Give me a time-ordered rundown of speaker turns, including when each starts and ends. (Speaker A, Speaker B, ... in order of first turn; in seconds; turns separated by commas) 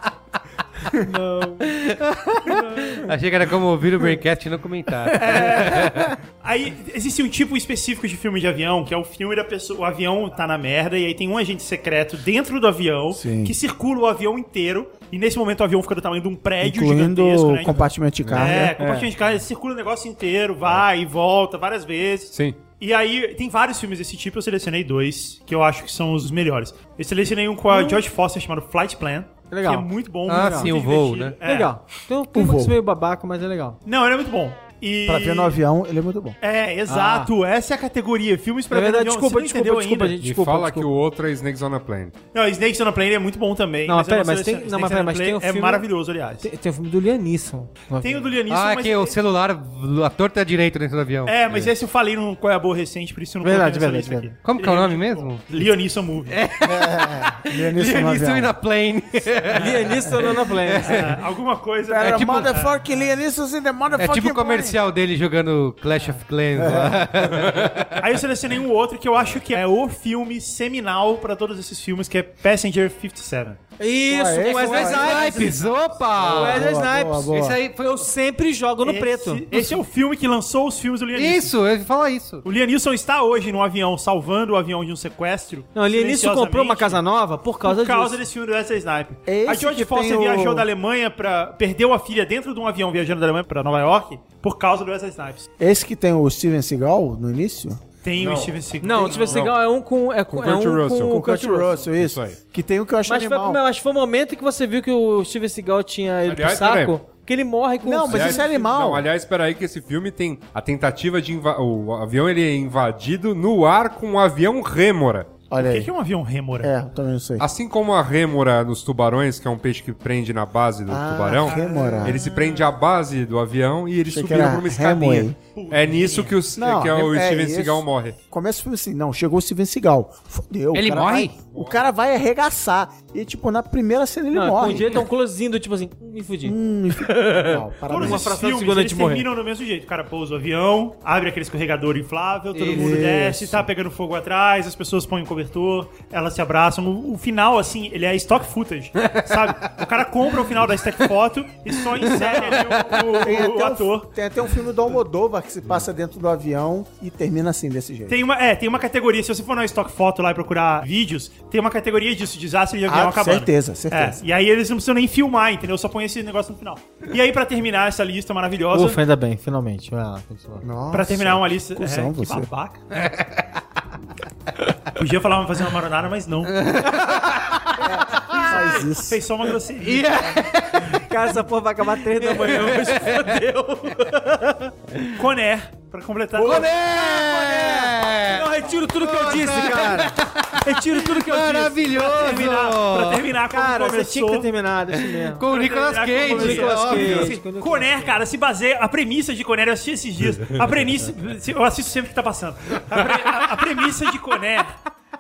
Speaker A: 0.9-1.7, Speaker B: 1.6-6.1, Speaker C: 5.1-31.7, Speaker D: 13.1-13.6, Speaker D: 16.6-18.8, Speaker A: 18.5-19.1, Speaker E: 22.3-22.6, Speaker A: 27.7-28.0, Speaker A: 29.5-30.7, Speaker B: 30.3-31.4, Speaker A: 31.4-33.8, Speaker D: 32.3-32.8, Speaker C: 33.9-35.6, Speaker D: 35.0-36.4, Speaker C: 36.4-40.1, Speaker A: 36.9-37.3, Speaker A: 38.7-40.9, Speaker E: 40.2-42.1, Speaker C: 42.3-46.5, Speaker A: 43.9-45.9, Speaker A: 46.4-48.3, Speaker C: 48.0-49.1, Speaker B: 48.5-51.4, Speaker C: 51.2-56.4, Speaker A: 53.4-54.3, Speaker B: 54.4-55.6, Speaker B: 56.3-61.1, Speaker D: 56.6-58.5, Speaker A: 59.5-61.1, Speaker C: 60.8-63.0, Speaker D: 61.9-64.8, Speaker B: 62.0-62.5, Speaker B: 63.9-68.0, Speaker D: 66.5-67.2, Speaker C: 68.0-73.6, Speaker A: 73.8-75.7, Speaker D: 74.1-75.3, Speaker B: 74.5-76.6, Speaker C: 75.2-75.7, Speaker D: 76.2-77.6, Speaker A: 76.2-79.7, Speaker B: 77.3-78.1, Speaker C: 78.8-81.5, Speaker B: 81.2-82.4, Speaker C: 82.4-87.0, Speaker A: 85.7-88.2, Speaker C: 87.6-95.5, Speaker D: 89.3-90.7, Speaker D: 95.6-97.8, Speaker C: 98.0-99.5, Speaker E: 98.2-99.6, Speaker A: 98.8-101.9, Speaker E: 100.3-101.2, Speaker D: 101.0-103.6, Speaker E: 101.9-102.4, Speaker A: 103.0-108.6, Speaker E: 106.2-107.0, Speaker D: 107.8-109.1, Speaker E: 108.0-115.4, Speaker D: 115.5-115.9, Speaker C: 115.6-116.7, Speaker D: 116.6-117.5, Speaker E: 117.4-128.2, Speaker D: 120.9-122.2, Speaker C: 121.5-122.7, Speaker D: 124.1-125.3, Speaker C: 125.5-126.4, Speaker D: 126.5-135.0, Speaker B: 130.7-131.3, Speaker E: 131.4-131.8, Speaker A: 134.3-136.6, Speaker D: 136.4-138.4, Speaker A: 137.2-139.2, Speaker C: 137.9-154.1, Speaker D: 142.6-143.7, Speaker B: 149.0-149.3, Speaker B: 152.0-153.1, Speaker D: 153.2-158.2, Speaker C: 158.1-169.0, Speaker D: 162.9-164.2, Speaker A: 168.7-170.6, Speaker D: 170.6-172.5, Speaker C: 170.9-172.9, Speaker B: 172.9-173.5, Speaker C: 174.9-176.6, Speaker B: 176.5-178.5, Speaker D: 177.9-179.2, Speaker C: 178.4-180.4, Speaker B: 179.8-181.4, Speaker A: 180.9-184.7, Speaker B: 182.1-183.4, Speaker B: 184.9-185.2, Speaker C: 185.1-186.7, Speaker B: 186.4-193.3, Speaker A: 186.4-192.2, Speaker C: 191.8-194.5, Speaker A: 193.5-195.4, Speaker B: 194.9-197.4, Speaker C: 195.5-204.7, Speaker A: 196.2-198.2